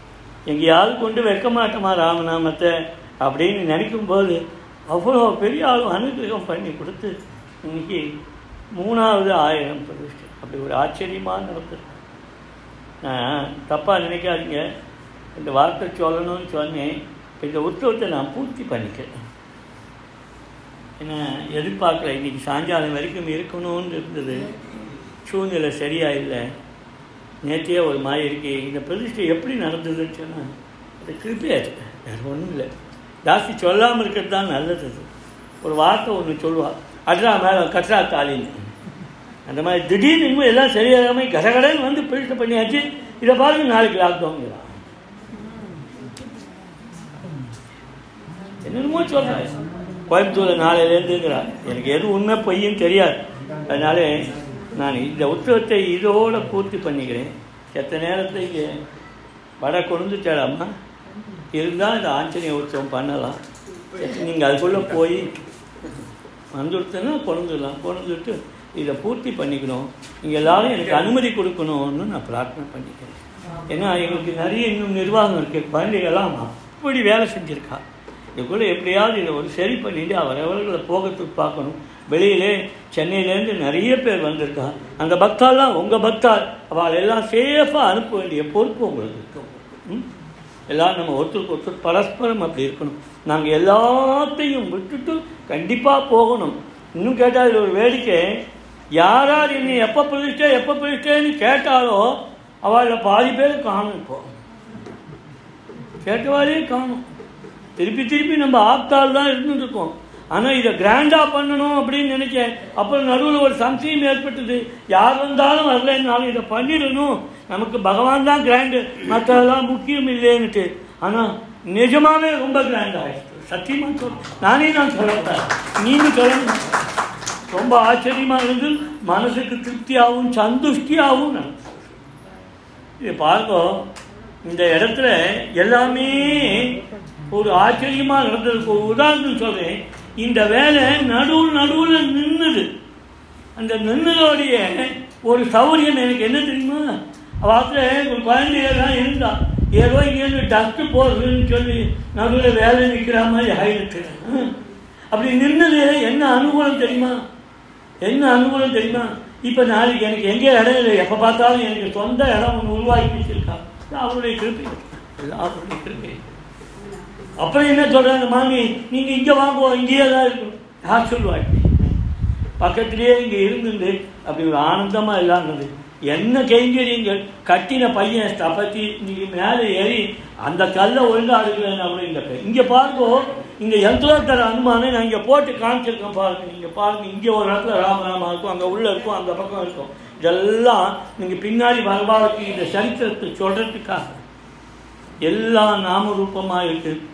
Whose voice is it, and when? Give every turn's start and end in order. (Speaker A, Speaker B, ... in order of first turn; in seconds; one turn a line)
Speaker A: 0.5-8.1
Speaker A: 8.8-11.9
Speaker A: 13.0-14.7
Speaker A: 15.4-19.2
Speaker A: 21.0-24.5
Speaker A: 25.2-26.5
Speaker A: 27.4-32.7
Speaker A: 33.2-35.1
Speaker A: 35.6-38.7
Speaker A: 39.5-44.8
Speaker A: 48.6-49.5
Speaker A: 50.1-58.8
Speaker A: 59.6-60.7
Speaker A: 61.5-63.4
Speaker A: 64.0-65.4
Speaker A: 66.5-73.2
Speaker A: 73.7-77.8
Speaker A: 78.4-90.1
Speaker A: 90.7-98.4
Speaker A: 99.0-104.3
Speaker A: 106.0-107.0
Speaker A: 107.8-126.8
Speaker A: 127.5-131.9
Speaker A: 133.0-133.9
Speaker A: 134.4-136.8
Speaker A: 137.3-142.7
Speaker A: 143.6-154.6
Speaker A: 155.1-157.2
Speaker A: 158.0-166.3
Speaker A: 167.4-171.9
Speaker A: 172.6-194.2
Speaker A: 195.2-197.0